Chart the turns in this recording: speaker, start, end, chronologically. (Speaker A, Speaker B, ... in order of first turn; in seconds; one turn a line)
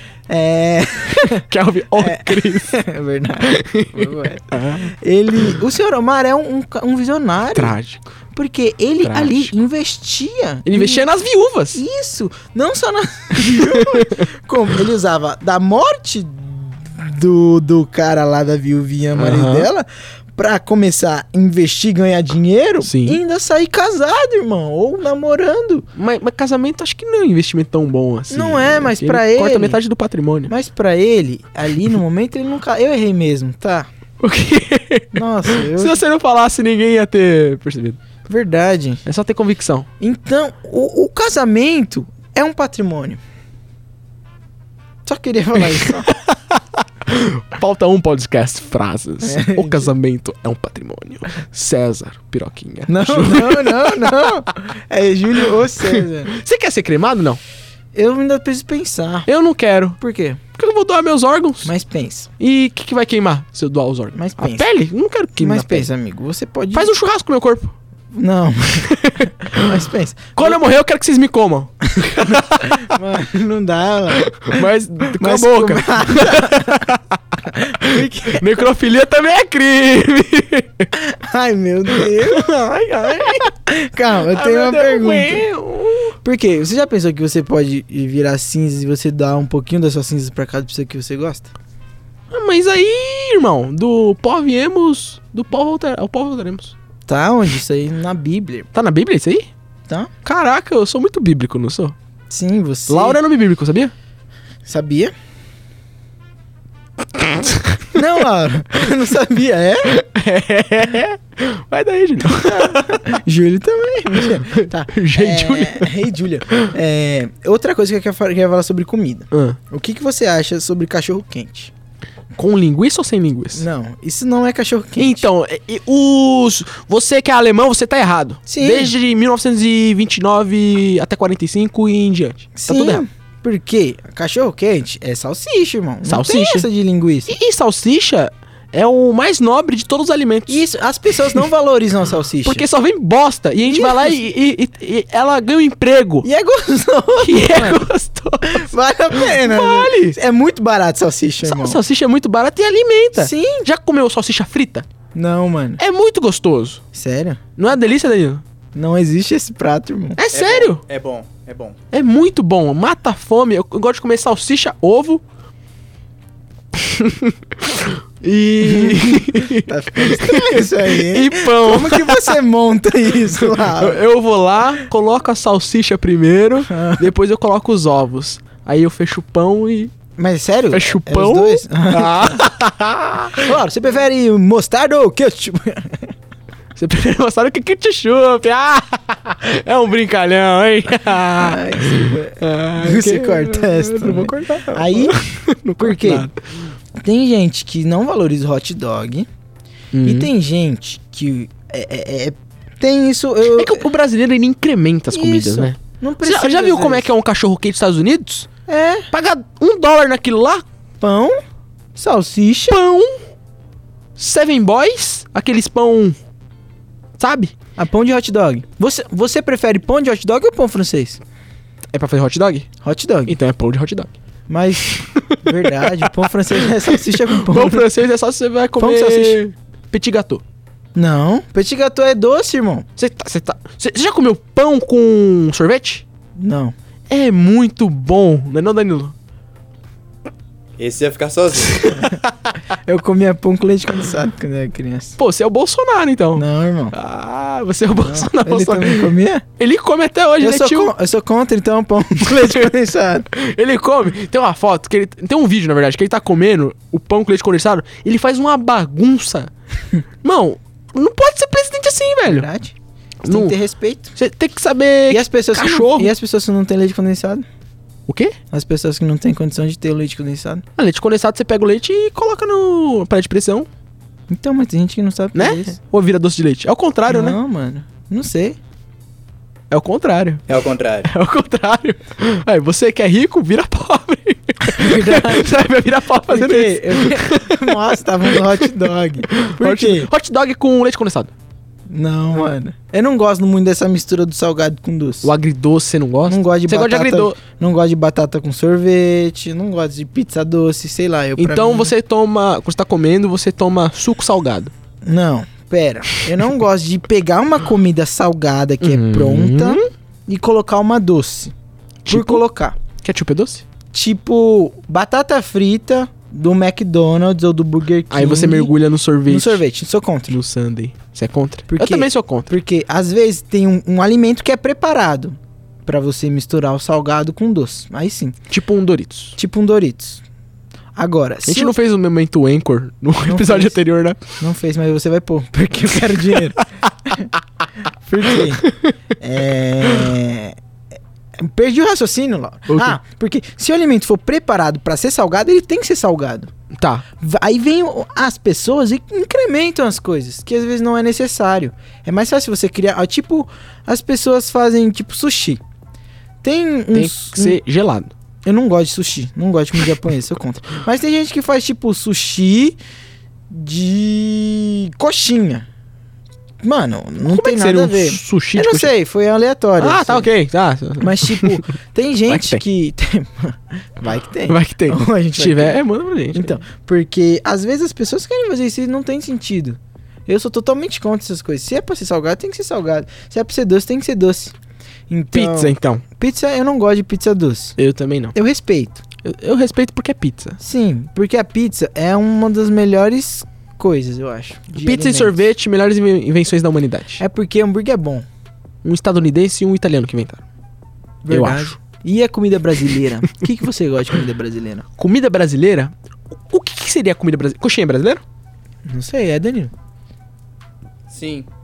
Speaker A: 0.3-7.8
Speaker B: 1.2-2.8
Speaker B: 3.4-5.6
Speaker B: 7.5-8.1
Speaker A: 8.3-11.1
Speaker B: 9.0-9.5
Speaker B: 10.7-11.8
Speaker A: 11.7-25.9
Speaker B: 13.3-14.2
Speaker B: 19.1-19.7
Speaker B: 22.8-23.2
Speaker B: 25.9-30.5
Speaker A: 28.3-29.8
Speaker A: 30.5-33.9
Speaker B: 34.2-38.0
Speaker A: 35.1-36.0
Speaker A: 38.3-39.0
Speaker B: 39.0-39.9
Speaker A: 40.0-43.2
Speaker A: 45.0-46.1
Speaker B: 45.8-54.2
Speaker A: 49.2-49.9
Speaker A: 52.9-56.3
Speaker B: 55.8-57.4
Speaker A: 57.9-59.3
Speaker B: 59.2-60.0
Speaker A: 60.0-60.4
Speaker B: 60.5-61.7
Speaker A: 61.6-62.3
Speaker B: 62.4-65.9
Speaker A: 64.1-64.7
Speaker A: 65.4-66.9
Speaker B: 66.7-67.7
Speaker A: 68.1-70.6
Speaker B: 68.8-69.7
Speaker B: 70.3-72.9
Speaker A: 72.0-76.9
Speaker B: 74.2-77.1
Speaker A: 77.5-78.5
Speaker B: 77.7-80.9
Speaker A: 80.9-85.4
Speaker B: 81.9-83.5
Speaker B: 84.3-86.2
Speaker A: 86.2-91.5
Speaker B: 92.3-96.7
Speaker A: 97.1-98.7
Speaker B: 98.7-99.5
Speaker B: 100.2-101.9
Speaker A: 102.3-103.2
Speaker B: 102.9-103.9
Speaker A: 104.6-105.1
Speaker B: 107.2-107.8
Speaker A: 107.9-109.9
Speaker B: 109.8-113.2
Speaker A: 112.2-121.7
Speaker B: 114.3-115.9
Speaker B: 119.3-119.6
Speaker B: 122.3-123.7
Speaker A: 123.5-125.3
Speaker B: 125.0-133.0
Speaker A: 128.5-128.9
Speaker A: 132.5-137.3
Speaker B: 136.1-136.7
Speaker B: 137.3-140.6
Speaker A: 140.5-142.7
Speaker B: 142.4-146.3
Speaker A: 143.7-144.2
Speaker A: 146.2-147.8
Speaker B: 147.2-150.2
Speaker A: 148.4-151.8
Speaker B: 151.4-154.9
Speaker A: 153.2-153.7
Speaker A: 155.1-155.8
Speaker B: 155.8-156.8
Speaker A: 156.9-157.4
Speaker B: 157.6-158.4
Speaker A: 158.7-160.2
Speaker B: 160.2-160.8
Speaker C: 160.3-161.8
Speaker B: 161.9-165.2
Speaker B: 166.8-172.4
Speaker A: 168.6-174.0
Speaker B: 173.4-179.9
Speaker A: 176.7-177.1
Speaker A: 180.2-182.5
Speaker B: 180.7-183.5
Speaker A: 183.3-186.1
Speaker B: 186.8-196.4
Speaker A: 191.3-195.2
Speaker A: 195.8-196.3
Speaker A: 196.9-199.3
Speaker B: 199.9-200.3
Speaker A: 200.0-203.8
Speaker B: 203.5-208.5
Speaker A: 205.1-207.1
Speaker A: 208.7-209.1
Speaker B: 209.1-210.6
Speaker A: 211.0-211.4
Speaker A: 211.9-212.8
Speaker B: 212.7-213.2
Speaker B: 214.2-216.2
Speaker B: 217.2-217.5
Speaker A: 217.8-221.2
Speaker B: 221.9-222.7
Speaker A: 222.8-223.3
Speaker B: 223.3-224.1
Speaker A: 224.5-227.9
Speaker B: 224.9-230.4
Speaker A: 228.8-229.4
Speaker A: 230.9-232.8
Speaker B: 233.0-236.0
Speaker A: 236.3-236.7
Speaker B: 237.1-239.1
Speaker C: 240.8-241.9
Speaker B: 241.8-242.1
Speaker A: 241.9-242.2
Speaker A: 242.7-245.2
Speaker B: 245.2-250.9
Speaker A: 246.3-246.9
Speaker A: 248.0-249.4
Speaker A: 250.4-253.3
Speaker B: 252.2-252.7
Speaker B: 253.3-259.5
Speaker B: 260.2-262.5
Speaker A: 262.2-262.7
Speaker B: 263.2-263.6
Speaker A: 263.3-264.1
Speaker B: 264.1-266.1
Speaker A: 265.1-267.4
Speaker B: 268.1-268.4
Speaker A: 268.5-270.6
Speaker B: 270.8-273.7
Speaker A: 274.3-275.8
Speaker B: 275.3-277.4
Speaker A: 277.1-278.6
Speaker B: 279.7-280.4
Speaker C: 280.5-281.1
Speaker B: 281.0-288.6
Speaker A: 284.7-285.5
Speaker A: 286.3-290.1
Speaker B: 289.3-291.3
Speaker A: 291.9-295.3
Speaker B: 295.2-297.4
Speaker A: 296.3-301.9
Speaker B: 301.4-304.7
Speaker A: 305.0-311.5
Speaker B: 308.8-309.9
Speaker B: 312.1-312.4
Speaker A: 312.1-312.8
Speaker B: 313.0-313.6
Speaker A: 313.9-318.7
Speaker B: 318.1-319.6
Speaker A: 319.3-320.4
Speaker B: 320.3-322.5
Speaker A: 321.7-328.4
Speaker B: 328.5-329.4
Speaker A: 329.4-330.2
Speaker A: 330.9-331.8
Speaker B: 331.4-334.2
Speaker A: 333.2-333.8
Speaker A: 334.4-337.3
Speaker A: 338.0-340.6
Speaker B: 338.6-338.9
Speaker A: 341.4-346.5
Speaker B: 342.7-343.0
Speaker B: 346.7-347.0
Speaker A: 347.2-355.6
Speaker A: 356.4-357.6
Speaker B: 356.9-358.1
Speaker A: 358.4-362.8
Speaker A: 363.5-365.6
Speaker A: 366.6-370.3
Speaker B: 367.2-368.9
Speaker B: 369.8-371.6
Speaker A: 371.0-375.8
Speaker B: 372.3-372.6
Speaker B: 374.5-376.6
Speaker A: 376.3-384.5
Speaker A: 385.1-387.8
Speaker B: 385.3-386.0
Speaker B: 387.8-388.4
Speaker A: 388.3-389.0
Speaker B: 389.2-390.6
Speaker A: 390.6-395.4
Speaker B: 394.7-397.2
Speaker A: 397.2-398.2
Speaker B: 398.8-400.4
Speaker A: 401.2-404.9
Speaker B: 401.3-401.8
Speaker B: 405.0-408.2
Speaker A: 408.9-409.7
Speaker C: 411.1-411.5